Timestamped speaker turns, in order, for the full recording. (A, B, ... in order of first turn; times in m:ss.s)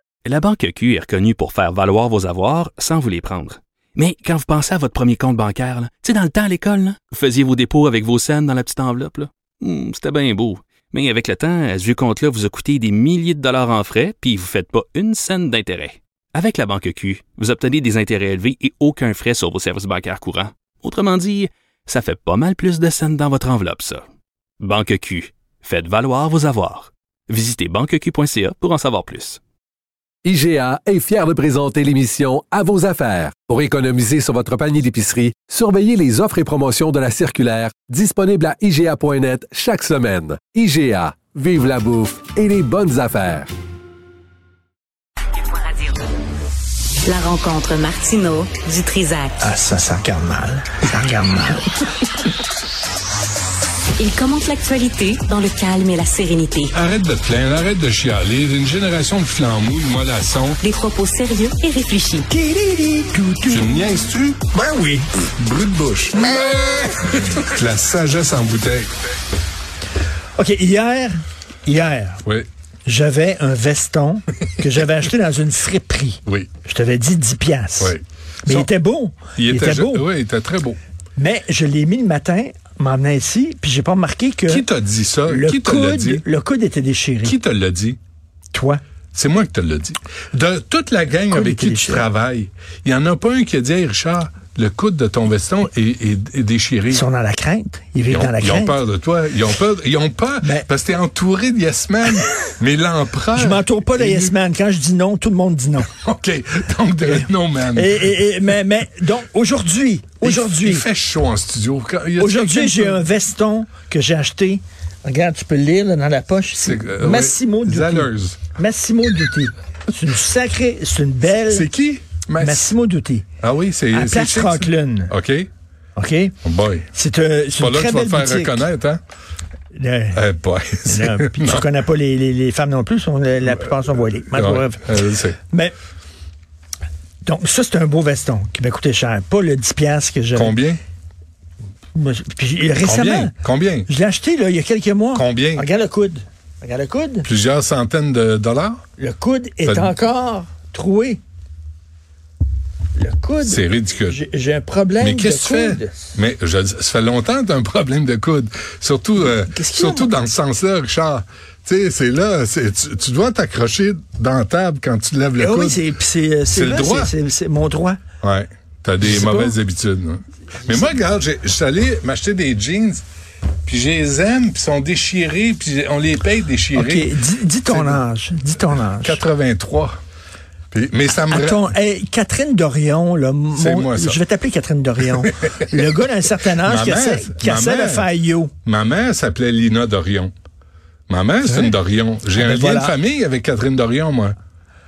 0:00.2-0:24.0 A
0:24.6-0:29.4 A
0:30.2-0:43.5 B
0:45.5-0:45.8 C
0:47.1-0:49.4 C
0:49.4-0:51.7 D
0:54.0-0:56.7 C
0:56.7-1:00.6 E
1:00.6-1:02.3 C
1:02.3-1:03.7 D
1:03.5-1:04.4 E
1:04.5-1:05.1 D
1:05.4-1:08.9 E
1:10.4-1:12.2 D
1:12.8-1:20.1 D
1:17.8-1:18.7 E
1:19.4-1:20.8 E
1:21.2-1:24.6 D
1:24.5-1:26.2 E
1:25.3-1:27.4 D
1:27.2-1:28.0 E
1:28.5-1:28.8 D
1:29.1-1:37.0 E
1:31.3-1:32.1 D
1:36.9-1:38.8 D
1:38.1-1:44.3 E
1:43.3-1:45.9 D
1:45.9-1:48.2 E
1:47.1-1:50.8 D
1:50.2-1:53.0 E
1:52.2-2:01.7 D
1:56.6-1:58.4 E
2:01.4-2:02.7 E
2:02.4-2:03.3 D
2:03.4-2:05.5 E
2:03.9-2:05.1 D
2:06.0-2:06.4 D
2:06.4-2:06.9 E
2:06.9-2:08.6 D
2:07.6-2:09.0 E
2:09.7-2:10.2 D
2:10.2-2:11.7 E
2:10.9-2:14.8 D
2:14.3-2:15.4 E
2:17.2-2:20.6 D
2:20.4-2:20.8 E
2:22.0-2:23.3 D
2:22.8-2:23.9 E
2:23.9-2:27.3 D
2:25.2-2:25.7 E
2:27.3-2:28.8 E
2:29.0-2:31.2 D
2:29.6-2:29.9 E
2:33.0-2:36.2 D
2:33.4-2:34.2 E
2:35.0-2:45.8 E
2:39.2-2:40.1 D
2:45.4-2:48.0 D
2:46.5-2:47.1 E
2:48.2-2:53.0 E
2:49.0-2:49.6 D
2:53.7-2:57.1 E
2:56.8-2:59.2 D
2:57.7-2:58.0 E
2:59.0-3:00.0 E
3:00.7-3:01.7 E
3:01.3-3:08.5 D
3:03.6-3:04.2 E
3:05.2-3:05.6 E
3:06.5-3:08.1 E
3:08.6-3:10.3 E
3:11.1-3:14.4 E
3:11.4-3:11.8 D
3:12.3-3:13.0 D